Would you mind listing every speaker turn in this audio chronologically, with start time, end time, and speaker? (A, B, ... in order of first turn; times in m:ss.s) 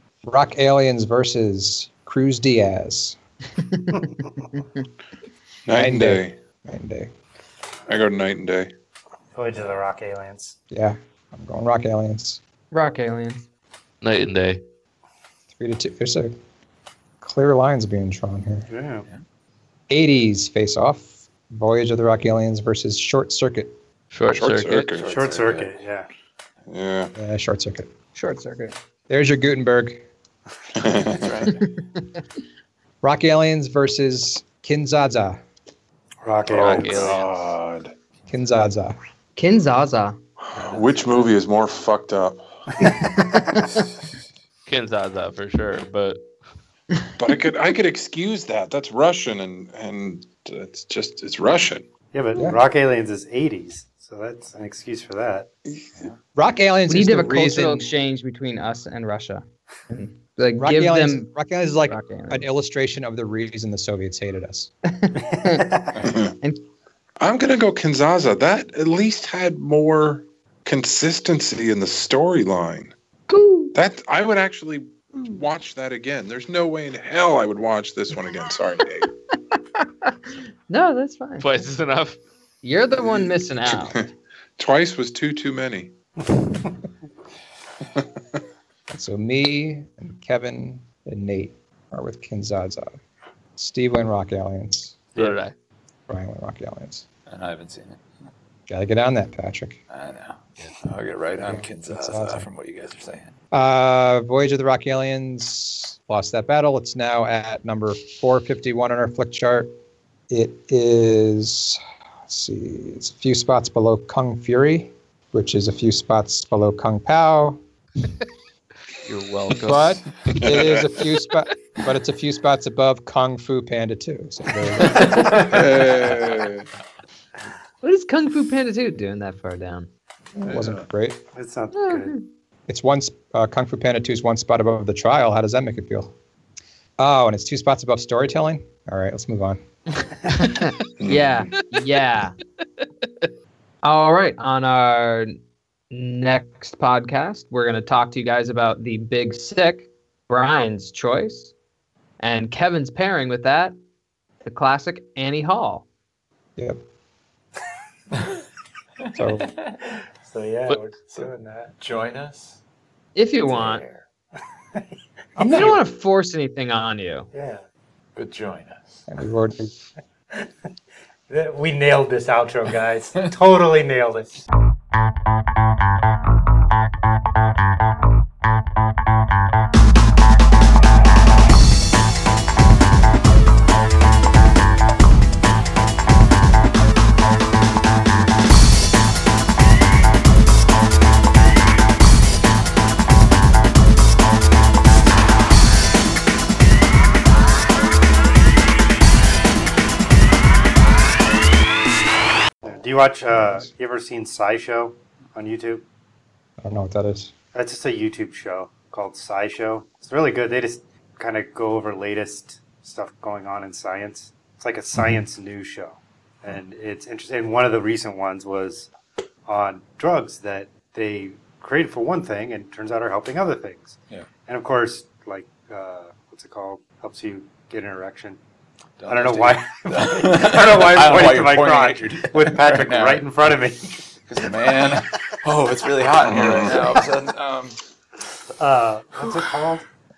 0:00.2-0:03.2 A
0:03.7-0:04.0 B
0:05.7-0:06.4 C
0:05.7-0:07.1 A
0:07.9-0:08.7 C
0:09.4-0:10.6 D
0:10.7-0:12.4 A
0:12.7-0:13.4 B
0:14.0-0:14.6 E
0:15.6-0:16.4 A
0:17.2-0:18.7 A
0:18.7-0:19.1 D
0:19.9-0:23.7 A
0:24.1-0:24.9 E
0:24.3-0:25.1 C
0:24.8-0:25.8 F
0:25.0-0:26.1 D
0:26.7-0:27.1 C
0:27.2-0:27.9 A
0:28.2-0:28.8 B
0:29.1-0:30.0 A
0:30.8-0:31.3 C
0:31.1-0:31.7 F
0:33.0-0:35.4 A
0:36.2-0:37.2 D
0:36.5-0:37.9 C
0:36.5-0:37.2 E
0:38.3-0:39.0 A
0:39.4-0:40.2 B
0:40.4-0:42.5 C
0:42.9-0:43.5 D
0:44.7-0:46.2 E
0:47.2-0:51.8 C
0:52.1-0:55.5 D
0:52.4-0:52.6 A
0:56.4-0:57.9 A
0:56.9-1:01.3 B
1:00.6-1:04.7 A
1:01.9-1:02.5 B
1:05.0-1:05.7 B
1:05.4-1:06.0 D
1:06.0-1:06.4 C
1:07.2-1:12.9 C
1:13.3-1:13.8 B
1:13.7-1:19.1 C
1:19.8-1:21.6 B
1:21.4-1:22.2 E
1:22.6-1:24.0 B
1:23.0-1:25.9 C
1:28.9-1:33.0 A
1:33.6-1:35.1 A
1:35.2-1:35.6 E
1:36.1-1:37.0 A
1:37.3-1:38.0 F
1:38.7-1:39.8 A
1:39.9-1:43.4 F
1:41.5-1:42.5 A
1:43.5-1:49.7 A
1:50.3-1:57.6 A
1:59.1-2:00.0 E
1:59.6-2:05.3 A
2:00.3-2:00.7 C
2:05.0-2:05.6 F
2:05.4-2:06.7 C
2:07.8-2:09.9 B
2:10.4-2:11.2 A
2:10.5-2:10.8 F
2:11.4-2:12.2 D
2:11.7-2:12.2 B
2:12.7-2:16.1 A
2:17.0-2:19.6 A
2:20.3-2:22.4 B
2:21.0-2:21.5 C
2:23.8-2:25.4 B
2:25.9-2:31.5 B
2:32.2-2:33.8 B
2:34.4-2:35.9 B
2:39.1-2:39.8 F
2:39.2-2:39.5 A
2:40.2-2:41.7 D
2:41.1-2:42.6 F
2:43.2-2:43.8 B
2:43.5-2:44.0 F
2:45.4-2:45.8 A
2:45.5-2:47.3 B
2:47.3-2:47.6 D
2:48.2-2:49.0 F
2:49.1-2:49.7 A
2:51.3-2:54.4 D
3:22.6-3:25.8 D
3:23.4-3:23.7 A
3:26.6-3:27.3 A
3:27.5-3:38.9 D
3:35.0-3:35.2 A
3:39.5-3:48.4 D
3:49.0-3:53.3 F
3:49.1-3:54.0 D
3:54.2-3:57.8 F
3:56.2-3:56.8 C
3:58.6-3:59.8 D